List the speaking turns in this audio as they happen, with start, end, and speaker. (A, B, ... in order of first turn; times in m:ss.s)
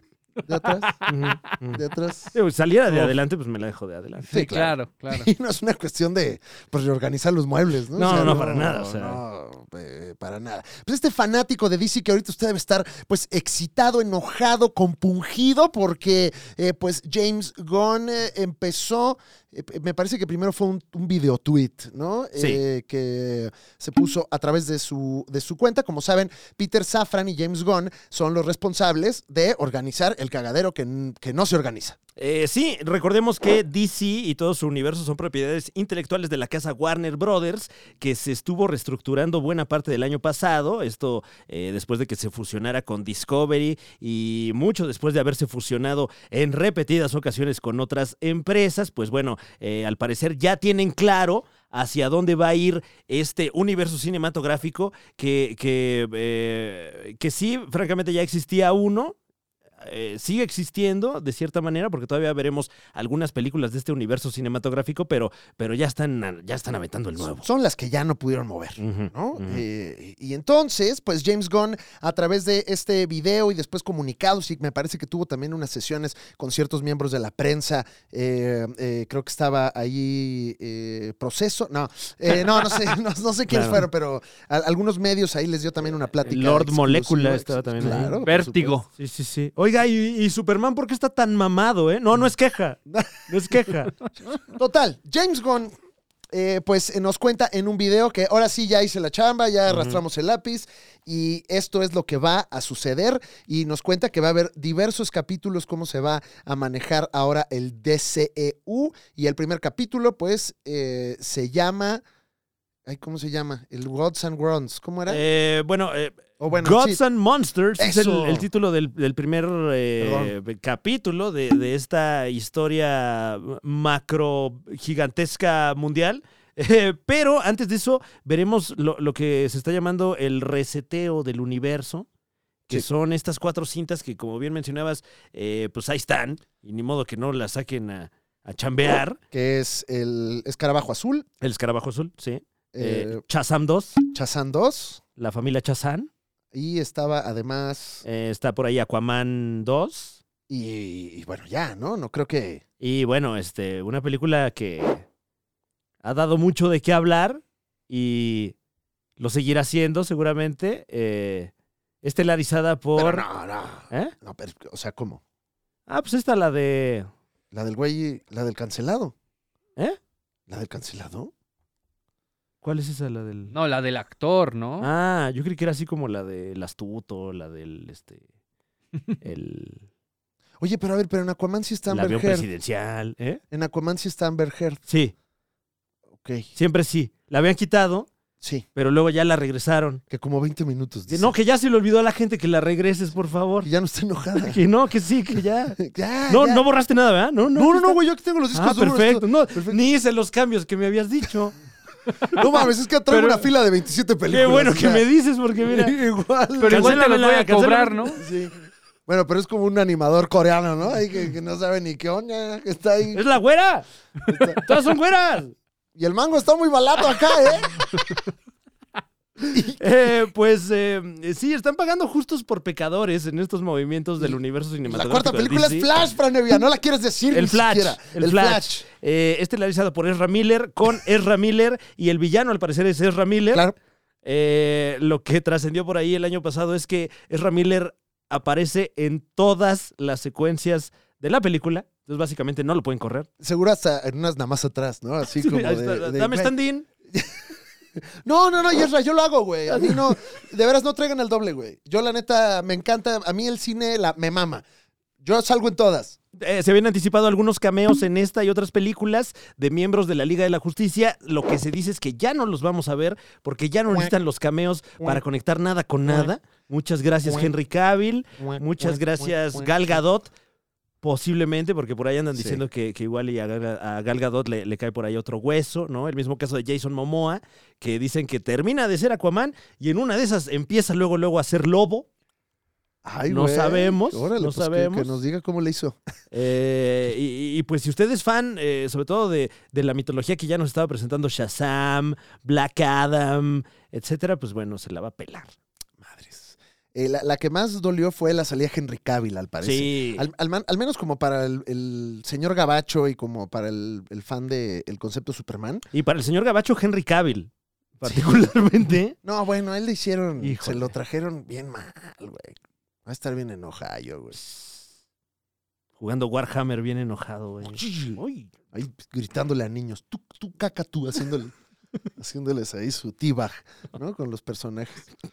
0:00.4-0:01.0 A
0:00.8-0:01.1 B
0:01.1-0:04.4 C
0:01.7-0:02.4 A
0:04.3-0:05.3 B
0:04.3-0:32.0 A
0:08.0-0:09.2 C
0:32.2-0:59.2 C
0:59.8-1:07.5 C
1:07.4-1:28.8 A
1:08.8-1:09.6 C
1:23.5-1:23.8 C
1:26.2-1:28.2 C
1:28.2-1:28.9 B
1:29.0-1:34.0 C
1:32.9-1:33.2 A
1:34.5-1:35.7 A
1:36.3-1:52.0 A
1:39.7-1:40.0 C
1:52.9-1:55.2 A
1:55.1-2:12.1 C
1:56.4-1:57.0 A
1:57.8-1:58.5 A
2:00.0-2:00.4 A
2:12.7-2:19.2 C
2:19.3-2:21.3 A
2:21.4-2:24.0 C
2:22.7-2:23.2 A
2:24.1-2:25.0 A
2:25.2-2:26.1 C
2:26.5-2:28.0 A
2:28.0-2:30.2 C
2:30.5-2:32.6 A
2:32.8-2:35.0 C
2:36.0-2:38.5 C
2:39.2-2:41.5 C
2:42.0-2:43.2 C
2:43.0-2:45.2 A
2:45.9-2:47.1 C
2:47.5-2:49.1 A
2:50.5-2:51.3 A
2:52.6-2:53.5 C
2:53.5-2:54.9 B
2:54.8-2:58.2 C
2:59.2-2:59.9 C
3:00.6-3:02.5 A
3:01.9-3:03.4 C
3:03.5-3:04.8 A
3:04.9-3:05.1 C
3:06.1-3:06.5 A
3:06.6-3:08.1 C
3:08.8-3:10.0 C
3:10.1-3:11.3 A
3:11.1-3:13.7 C
3:13.6-3:14.6 A
3:14.4-3:18.0 C
3:15.8-3:16.6 A
3:17.5-3:19.8 A
3:18.5-3:21.6 C
3:22.3-3:25.1 A
3:23.1-3:23.4 B
3:24.3-3:26.0 C
3:25.6-3:27.0 A
3:26.6-3:28.2 B
3:26.7-3:28.1 C
3:28.2-3:28.5 A
3:29.1-3:33.2 A
3:33.1-3:35.6 C
3:34.3-3:34.6 A
3:36.0-3:37.9 A
3:39.5-3:39.8 A
3:39.7-3:45.9 C
3:44.2-3:48.8 A
3:47.3-3:53.7 C
3:54.2-4:03.3 C
4:03.4-4:06.5 A
4:05.4-4:06.9 C
4:07.1-4:14.6 A
4:09.7-4:10.1 C
4:15.2-4:16.2 A
4:16.4-4:30.3 C
4:26.0-4:26.3 A
4:27.2-4:27.5 A
4:28.4-4:30.0 A
4:31.0-4:42.1 C
4:32.4-4:32.6 A
4:43.0-4:46.0 A
4:43.3-4:45.2 C
4:46.3-4:55.5 C
4:56.0-5:05.9 A
4:59.6-5:00.3 C
5:05.9-5:09.2 C
5:08.0-5:08.3 A
5:09.2-5:14.4 A
5:10.4-5:10.9 C
5:14.4-5:14.8 C
5:16.0-5:18.5 C
5:17.6-5:18.2 A
5:18.7-5:21.5 A
5:22.2-5:25.1 A